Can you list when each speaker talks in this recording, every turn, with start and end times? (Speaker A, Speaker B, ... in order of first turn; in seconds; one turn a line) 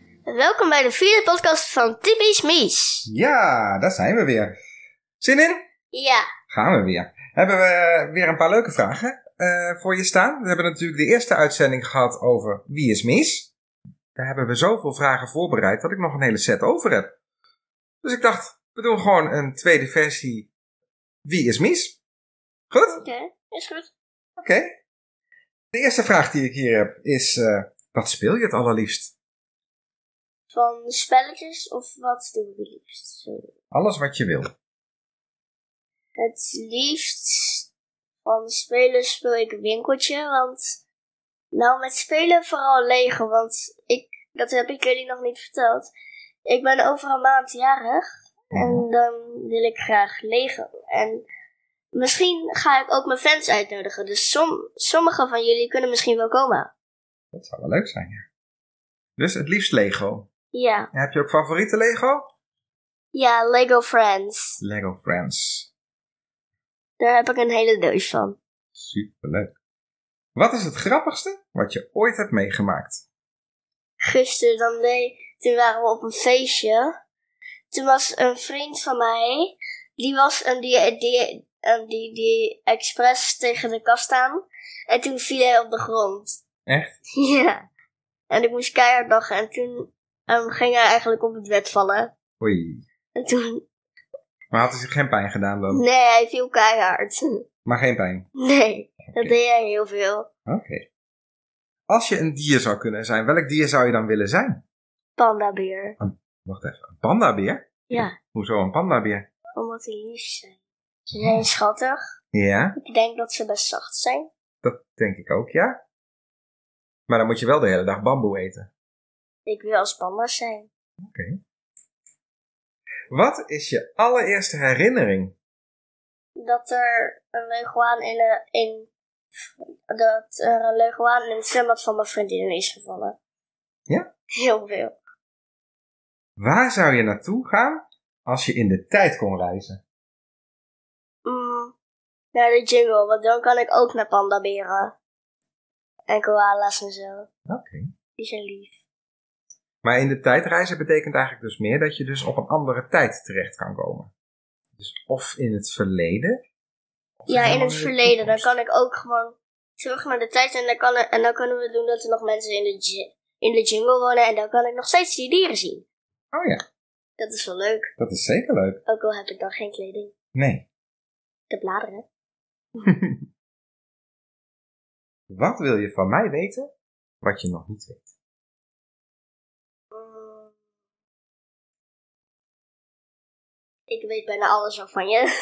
Speaker A: 0.2-3.1
Speaker B: 3.1-4.5
Speaker B: 5.2-5.7
Speaker A: 5.9-6.2
Speaker B: 6.5-13.5
Speaker B: 14.2-17.1
Speaker B: 18.0-20.5
Speaker B: 21.2-22.0
Speaker B: 22.7-23.0
Speaker A: 22.9-23.9
Speaker B: 24.4-24.8
Speaker B: 25.7-29.1
Speaker A: 30.5-33.5
Speaker B: 33.7-34.5
Speaker A: 36.2-37.7
Speaker A: 38.2-40.8
Speaker A: 41.5-45.9
Speaker A: 46.5-51.2
Speaker B: 48.5-48.8
Speaker A: 51.9-56.7
Speaker B: 57.3-58.2
Speaker B: 59.2-60.3
Speaker A: 60.5-60.9
Speaker B: 60.9-62.3
Speaker A: 63.1-64.6
Speaker B: 64.6-65.7
Speaker A: 67.0-68.4
Speaker B: 68.8-69.5
Speaker B: 70.3-73.0
Speaker A: 74.0-76.9
Speaker A: 77.7-86.4
Speaker B: 86.7-86.9
Speaker A: 87.2-87.7
Speaker A: 88.3-92.1
Speaker B: 92.4-92.8
Speaker A: 93.2-93.6
Speaker B: 94.5-95.8
Speaker A: 95.7-97.4
Speaker B: 97.7-98.3
Speaker A: 98.4-100.3
Speaker B: 100.5-100.9
Speaker B: 101.9-104.6
Speaker A: 105.2-106.0
Speaker B: 106.0-109.3
Speaker A: 107.9-108.2
Speaker A: 109.5-110.6
Speaker A: 111.1-112.1
Speaker B: 112.3-112.8
Speaker A: 112.8-114.3
Speaker B: 114.6-115.8
Speaker B: 117.1-118.7
Speaker A: 119.5-120.7
Speaker B: 121.0-121.4
Speaker B: 123.1-125.3
Speaker A: 126.3-133.2
Speaker A: 134.4-134.9
Speaker B: 136.4-139.8
Speaker A: 141.2-141.8
Speaker A: 142.3-144.9
Speaker A: 146.1-147.3
Speaker B: 147.5-147.9
Speaker A: 148.2-148.8
Speaker B: 149.8-154.1
Speaker B: 154.8-156.4
Speaker B: 157.2-158.5
Speaker A: 157.3-165.8
Speaker B: 166.3-166.6
Speaker A: 167.2-167.9
Speaker B: 168.0-168.8
Speaker A: 168.8-170.1
Speaker B: 170.3-170.7
Speaker A: 171.5-172.1
Speaker B: 172.8-173.2
Speaker B: 175.3-176.7
Speaker B: 177.2-178.1
Speaker A: 179.9-180.5
Speaker A: 183.9-185.3